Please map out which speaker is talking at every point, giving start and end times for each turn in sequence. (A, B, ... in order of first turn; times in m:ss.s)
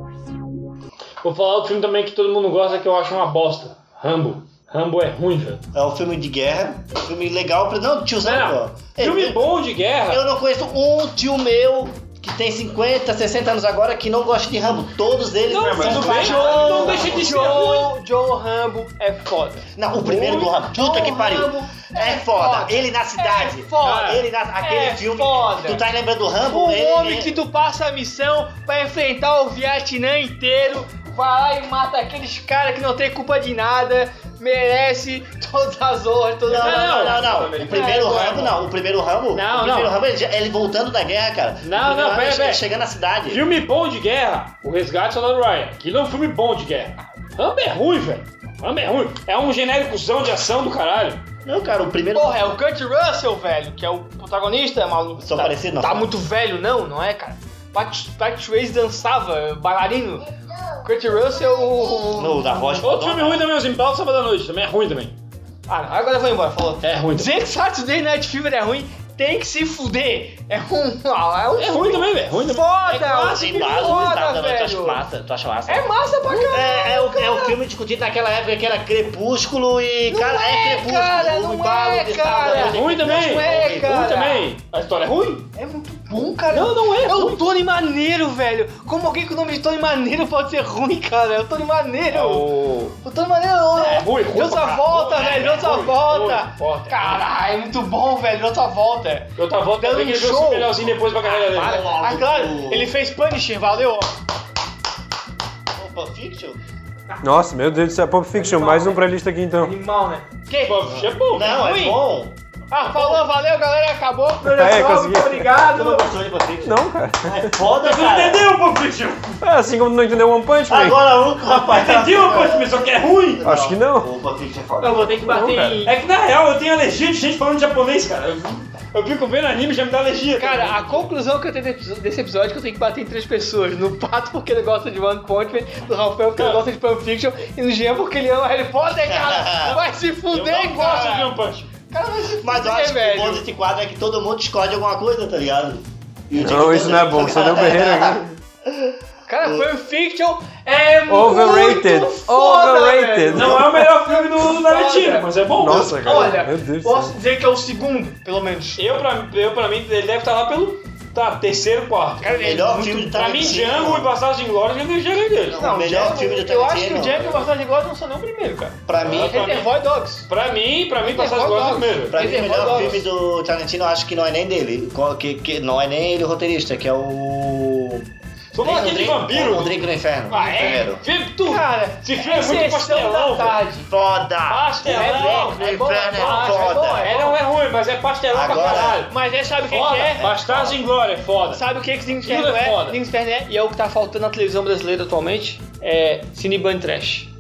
0:01.2-0:05.6 A
0:05.7-0:09.5 B
0:08.2-0:10.2 A
0:10.1-0:17.2 B
0:15.5-0:17.9 A
0:15.8-0:17.2 C
0:15.9-0:25.8 D
0:19.8-0:27.3 B
0:23.8-0:24.2 A
0:26.4-0:38.5 D
0:36.5-0:43.4 B
0:36.6-0:37.3 A
0:37.2-0:38.3 C
0:39.3-0:40.0 A
0:41.6-0:42.6 A
0:43.3-0:51.2 A
0:51.4-0:52.5 B
0:52.1-1:00.3 D
0:55.2-0:56.1 B
1:00.8-1:02.8 D
1:02.2-1:03.5 B
1:02.8-1:05.2 A
1:05.7-1:15.0 D
1:06.8-1:07.4 A
1:11.6-1:14.2 A
1:13.2-1:16.0 B
1:15.7-1:17.6 D
1:16.5-1:23.9 B
1:20.1-1:24.5 D
1:22.4-1:25.5 A
1:25.5-1:32.5 D
1:26.5-1:27.4 A
1:32.1-1:32.9 A
1:33.0-1:44.1 D
1:33.8-1:37.2 A
1:35.2-1:35.6 B
1:39.4-1:41.8 A
1:41.6-1:42.9 B
1:45.8-1:46.6 B
1:47.2-1:49.7 C
1:48.3-1:49.0 D
1:49.6-1:52.0 D
1:50.6-1:51.6 A
1:51.3-1:52.4 B
1:52.7-1:56.1 D
1:54.4-1:55.5 C
1:55.6-1:58.5 B
1:56.6-1:57.6 C
1:57.8-1:59.4 A
1:59.4-2:01.0 C
2:00.7-2:05.2 B
2:01.4-2:03.4 A
2:03.4-2:04.1 C
2:04.8-2:06.0 D
2:05.3-2:05.8 C
2:05.8-2:11.1 A
2:10.4-2:21.4 D
2:16.4-2:16.6 A
2:19.0-2:19.8 B
2:19.6-2:21.7 A
2:21.9-2:23.4 D
2:22.4-2:29.7 B
2:26.3-2:28.4 C
2:29.3-2:38.8 D
2:31.1-2:33.9 C
2:33.3-2:36.4 A
2:35.6-2:37.1 C
2:38.8-2:42.4 A
2:42.2-2:43.1 D
2:42.3-2:44.1 B
2:43.1-2:45.6 A
2:45.5-2:47.4 B
2:45.6-2:50.3 D
2:48.9-2:49.6 B
2:49.0-2:49.8 A
2:50.3-2:53.0 A
2:51.0-2:53.0 D
2:52.1-3:01.0 B
2:58.5-3:03.6 A
3:00.3-3:00.9 D
3:01.4-3:03.9 D
3:03.9-3:07.3 B
3:04.5-3:11.6 A
3:04.9-3:07.4 D
3:08.3-3:09.0 B
3:09.0-3:10.3 D
3:10.2-3:10.8 B
3:11.5-3:17.3 D
3:12.2-3:13.0 A